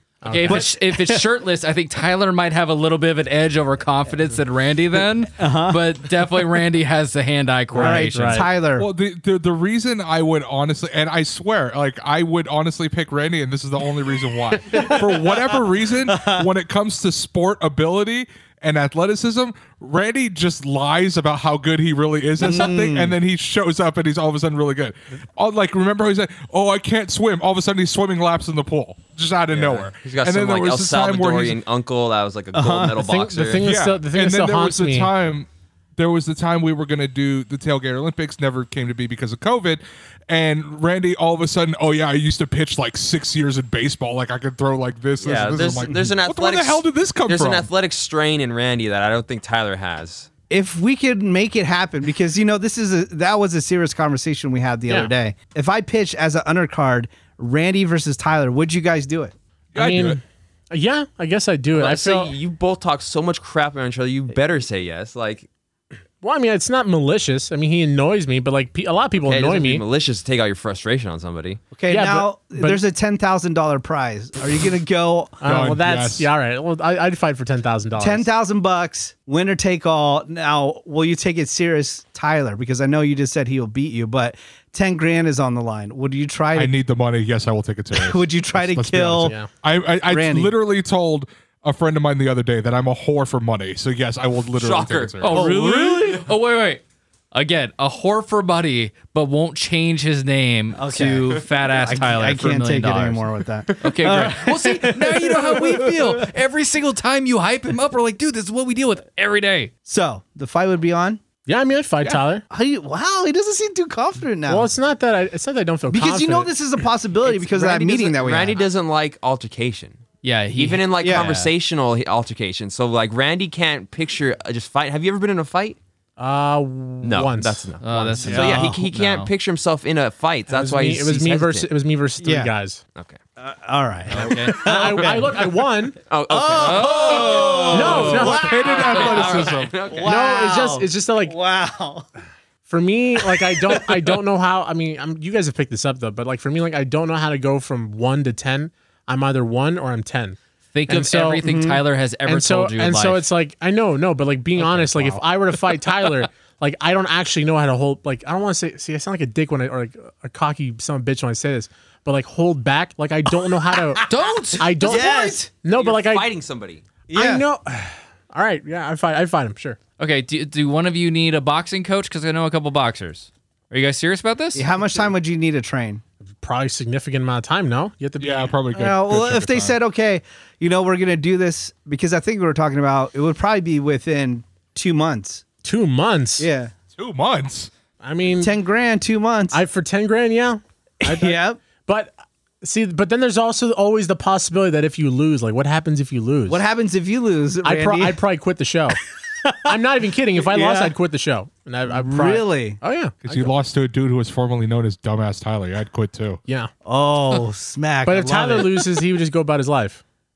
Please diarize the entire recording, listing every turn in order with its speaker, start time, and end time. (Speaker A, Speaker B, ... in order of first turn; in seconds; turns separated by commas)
Speaker A: 0.2-0.7, Speaker B: 0.2-8.4, Speaker C: 0.5-1.2, Speaker C: 5.4-5.8, Speaker A: 7.7-8.5, Speaker C: 7.8-8.9, Speaker D: 8.8-31.6, Speaker C: 14.7-16.5, Speaker C: 22.4-23.1, Speaker E: 29.5-33.6, Speaker C: 32.5-33.0, Speaker A: 33.0-35.1, Speaker D: 33.6-47.7, Speaker E: 45.2-50.3, Speaker C: 50.5-59.3, Speaker D: 59.7-60.2, Speaker A: 59.8-62.3, Speaker E: 61.7-65.5, Speaker A: 66.2-69.8, Speaker E: 69.2-71.6, Speaker C: 71.7-75.4, Speaker A: 71.9-72.8, Speaker A: 75.4-78.3, Speaker D: 75.4-76.3, Speaker C: 78.0-86.7, Speaker D: 86.5-95.4, Speaker C: 87.9-89.3, Speaker A: 89.2-89.5, Speaker C: 90.1-90.5, Speaker E: 94.5-95.4, Speaker B: 95.2-96.8, Speaker C: 95.3-96.2, Speaker B: 97.3-103.2, Speaker C: 100.8-106.2, Speaker B: 103.8-109.7, Speaker C: 109.8-111.2, Speaker A: 111.5-112.4, Speaker C: 112.5-114.7, Speaker A: 114.5-116.5, Speaker C: 115.9-118.6, Speaker E: 117.3-120.0, Speaker B: 120.2-120.9, Speaker E: 120.5-125.8, Speaker C: 121.0-121.5, Speaker A: 126.2-128.5, Speaker E: 127.0-131.7, Speaker B: 127.8-129.3, Speaker C: 128.3-128.8, Speaker A: 130.5-132.8, Speaker C: 132.2-132.5, Speaker C: 133.4-135.4, Speaker B: 134.1-134.7, Speaker A: 134.3-136.0, Speaker E: 136.1-140.2, Speaker C: 136.3-142.1, Speaker B: 136.6-138.2, Speaker A: 137.7-138.5, Speaker D: 138.3-139.8, Speaker A: 140.0-141.3, Speaker A: 142.6-151.4, Speaker B: 150.7-153.2, Speaker C: 151.4-151.8, Speaker A: 152.2-164.0, Speaker D: 154.7-154.9, Speaker B: 164.0-164.8, Speaker A: 164.6-166.3, Speaker C: 164.8-165.5, Speaker E: 165.5-166.8, Speaker C: 167.1-167.4, Speaker A: 167.1-169.8, Speaker B: 170.0-174.7, Speaker C: 174.5-176.0, Speaker A: 176.2-178.6, Speaker D: 178.2-179.8, Speaker C: 178.7-185.4, Speaker A: 185.6-186.5, Speaker C: 186.4-186.7, Speaker D: 187.0-187.7, Speaker A: 188.0-188.5, Speaker C: 188.4-189.6, Speaker A: 189.5-196.6, Speaker C: 191.0-191.6, Speaker C: 196.5-198.2, Speaker A: 197.6-199.0, Speaker C: 199.4-199.7, Speaker A: 199.7-203.5, Speaker C: 200.3-200.9, Speaker C: 201.9-202.8, Speaker D: 203.2-206.4, Speaker A: 206.4-206.7, Speaker C: 206.8-208.8, Speaker A: 208.0-210.0